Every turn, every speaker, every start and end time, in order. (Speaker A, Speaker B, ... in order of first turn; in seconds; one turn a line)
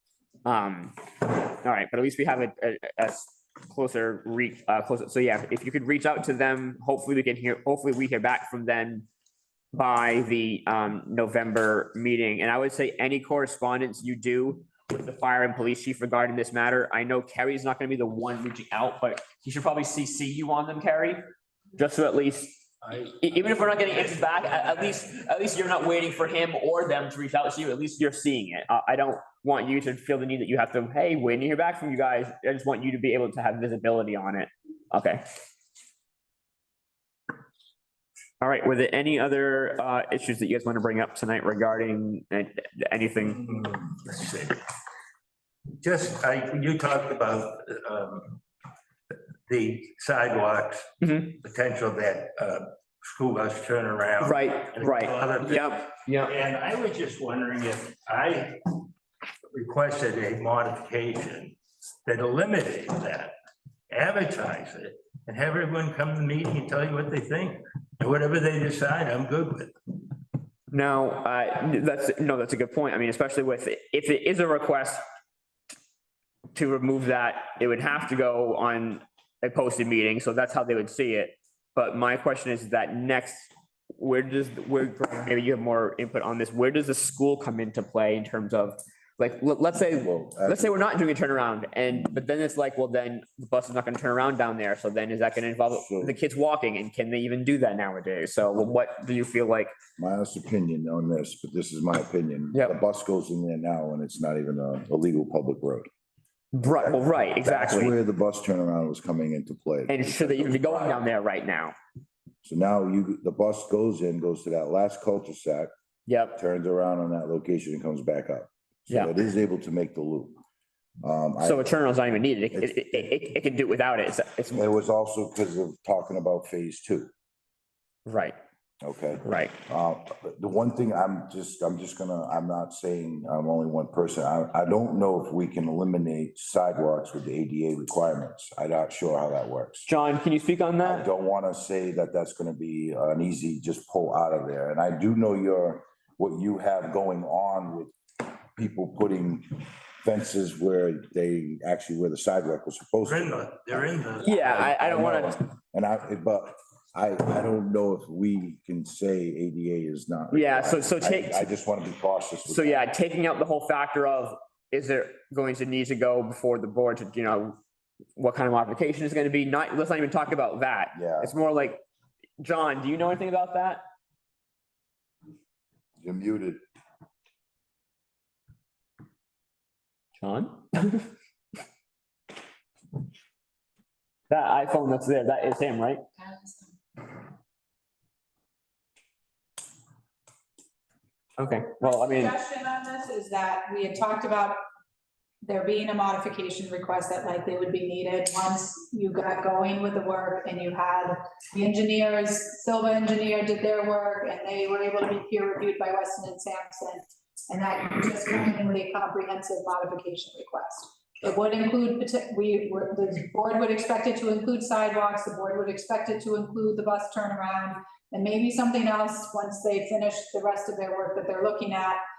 Speaker A: 0.5-1.0
Speaker A: 1.5-9.1
Speaker A: 9.7-21.2
Speaker A: 21.8-22.6
Speaker B: 22.8-25.0
Speaker A: 23.2-35.2
Speaker A: 38.4-43.4
Speaker B: 43.4-44.6
Speaker B: 45.8-48.4
Speaker B: 49.5-58.8
Speaker A: 51.0-51.4
Speaker A: 54.2-56.3
Speaker B: 59.5-63.4
Speaker B: 63.9-69.7
Speaker A: 70.7-75.0
Speaker A: 76.5-99.7
Speaker C: 90.0-90.8
Speaker C: 95.7-96.2
Speaker C: 100.0-105.9
Speaker A: 106.5-108.0
Speaker C: 106.8-111.0
Speaker A: 109.9-111.8
Speaker C: 112.4-115.7
Speaker A: 116.1-116.4
Speaker C: 116.4-120.4
Speaker C: 121.0-121.7
Speaker A: 121.4-124.7
Speaker C: 122.5-123.1
Speaker C: 124.5-127.1
Speaker A: 128.1-128.4
Speaker C: 128.8-139.9
Speaker A: 129.2-129.6
Speaker A: 139.9-141.1
Speaker C: 140.8-147.9
Speaker C: 148.6-162.8
Speaker B: 153.1-154.5
Speaker A: 154.2-155.4
Speaker A: 160.3-161.5
Speaker A: 162.5-167.6
Speaker A: 168.2-171.8
Speaker C: 170.9-171.3
Speaker A: 172.4-173.8
Speaker C: 176.0-176.6
Speaker A: 180.2-181.1
Speaker A: 184.3-186.0
Speaker D: 186.2-186.7
Speaker A: 191.4-192.3
Speaker D: 191.8-194.6
Speaker D: 195.4-222.0